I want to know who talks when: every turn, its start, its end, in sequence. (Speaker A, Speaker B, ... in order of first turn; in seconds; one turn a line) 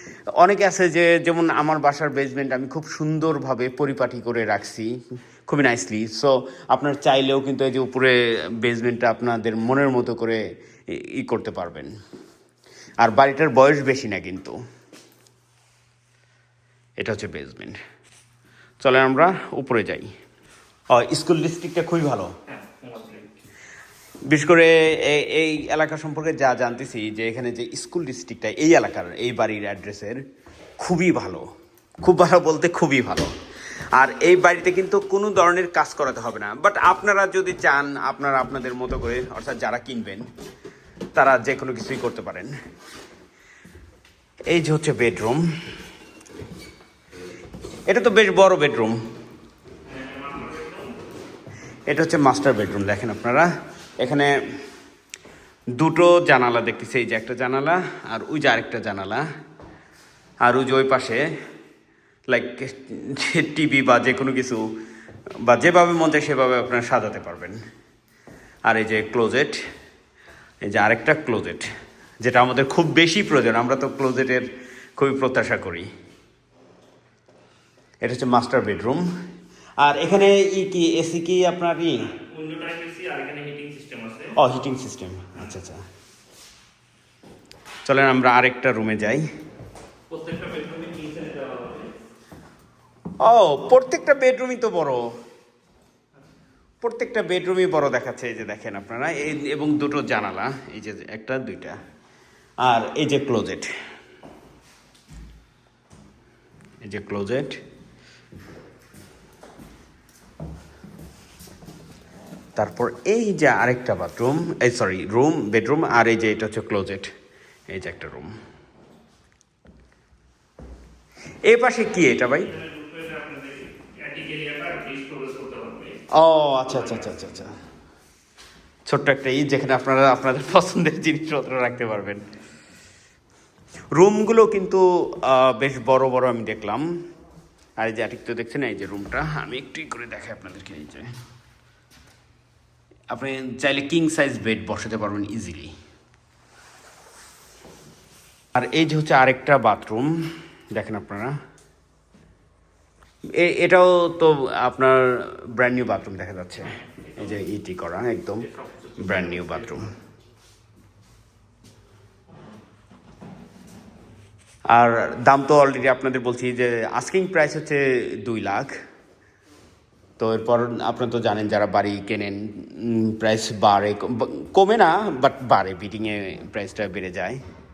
Speaker A: 0.4-11.9
Speaker A: 13.0-14.6
Speaker A: 17.0-17.8
Speaker A: 18.8-20.1
Speaker A: 20.9-22.3
Speaker B: 22.5-23.3
Speaker A: 24.3-30.2
Speaker A: 30.8-31.4
Speaker A: 32.0-33.3
Speaker A: 33.9-40.3
Speaker A: 41.1-42.5
Speaker A: 44.5-45.4
Speaker A: 47.9-49.0
Speaker B: 49.8-51.0
Speaker A: 51.9-53.5
Speaker A: 54.0-54.4
Speaker A: 55.7-59.2
Speaker A: 60.4-61.3
Speaker A: 62.3-64.7
Speaker A: 65.4-67.6
Speaker A: 68.7-69.6
Speaker A: 70.6-71.7
Speaker A: 72.2-75.9
Speaker A: 78.0-79.0
Speaker A: 79.8-82.1
Speaker B: 82.1-84.3
Speaker A: 84.4-85.8
Speaker A: 87.8-89.2
Speaker B: 90.1-91.9
Speaker A: 93.2-95.1
Speaker A: 96.8-101.8
Speaker A: 102.6-103.7
Speaker A: 106.8-107.6
Speaker A: 112.6-117.1
Speaker A: 117.7-118.3
Speaker A: 121.4-122.5
Speaker B: 122.0-126.0
Speaker A: 126.1-127.5
Speaker B: 126.8-127.1
Speaker A: 128.8-132.2
Speaker A: 133.9-136.9
Speaker A: 137.8-141.1
Speaker A: 143.1-145.7
Speaker A: 148.5-151.3
Speaker A: 153.4-158.5
Speaker B: 156.7-157.4
Speaker B: 158.4-159.8
Speaker A: 159.0-159.9
Speaker A: 164.7-168.8
Speaker A: 170.2-177.4